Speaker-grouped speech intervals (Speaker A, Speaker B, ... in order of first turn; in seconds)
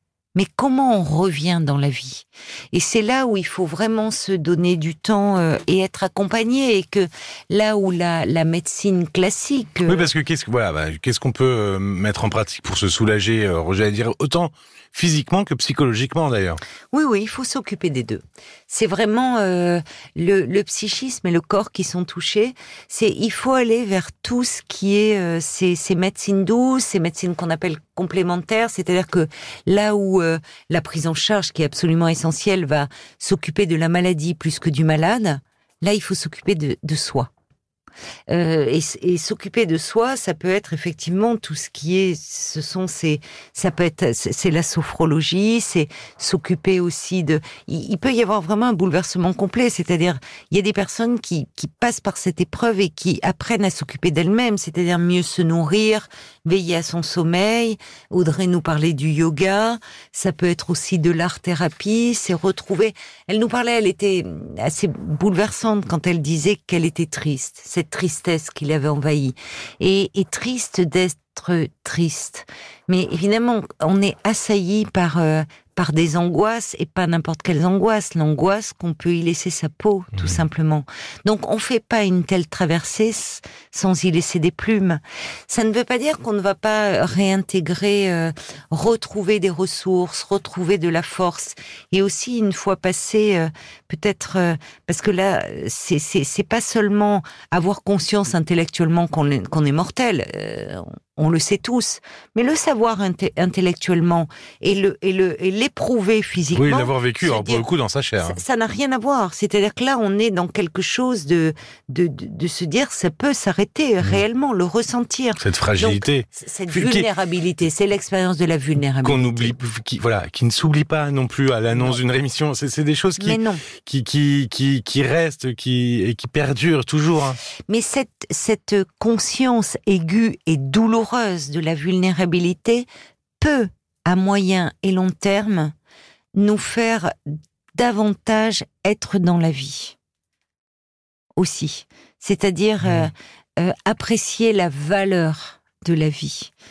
Speaker A: 0.3-10.1, 16.9-37.3, 38.3-107.7, 108.2-119.5, 123.2-123.7, 127.7-132.9, 133.4-135.7, 136.4-137.1, 137.8-139.9, 141.4-146.5
Speaker B: 9.9-16.6, 80.2-80.4, 106.5-108.4, 115.4-117.0, 119.0-127.4, 142.8-143.1